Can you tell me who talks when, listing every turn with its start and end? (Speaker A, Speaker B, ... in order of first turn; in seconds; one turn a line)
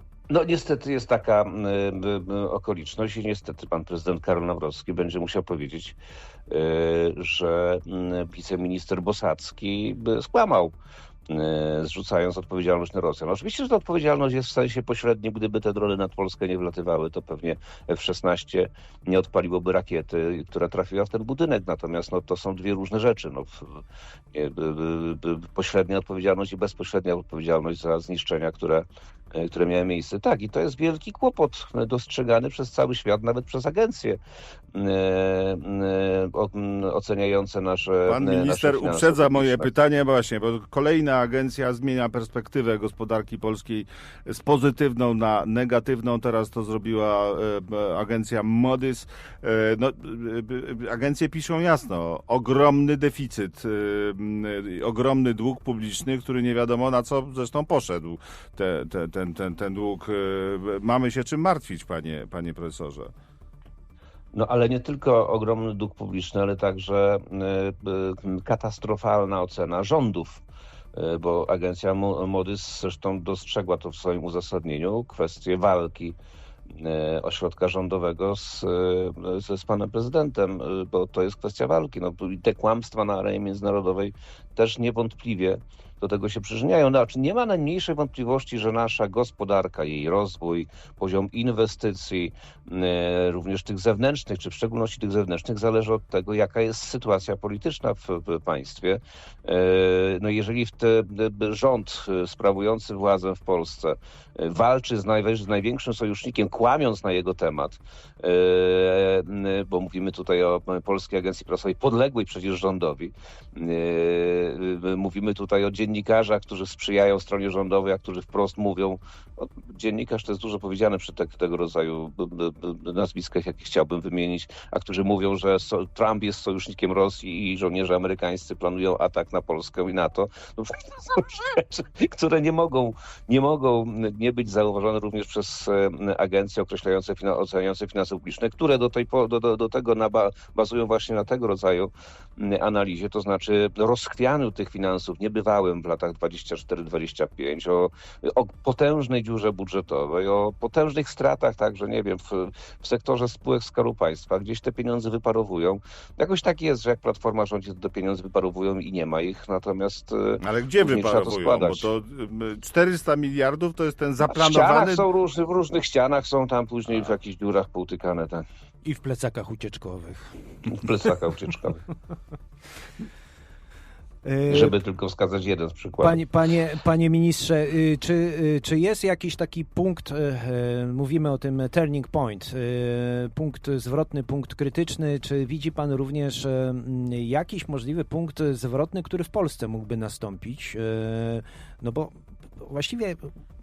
Speaker A: 0.3-6.0
Speaker A: 6.5-10.7
Speaker A: 11.3-23.8
Speaker A: 24.3-34.2
Speaker A: 34.7-39.7
Speaker B: 38.0-63.1
Speaker A: 64.3-70.4
Speaker A: 70.9-76.2
Speaker A: 76.7-161.9
Speaker B: 160.4-165.1
Speaker A: 164.2-168.4
Speaker C: 168.8-170.7
Speaker A: 170.6-171.8
Speaker C: 174.2-174.7
Speaker A: 174.5-176.2
Speaker C: 176.0-193.3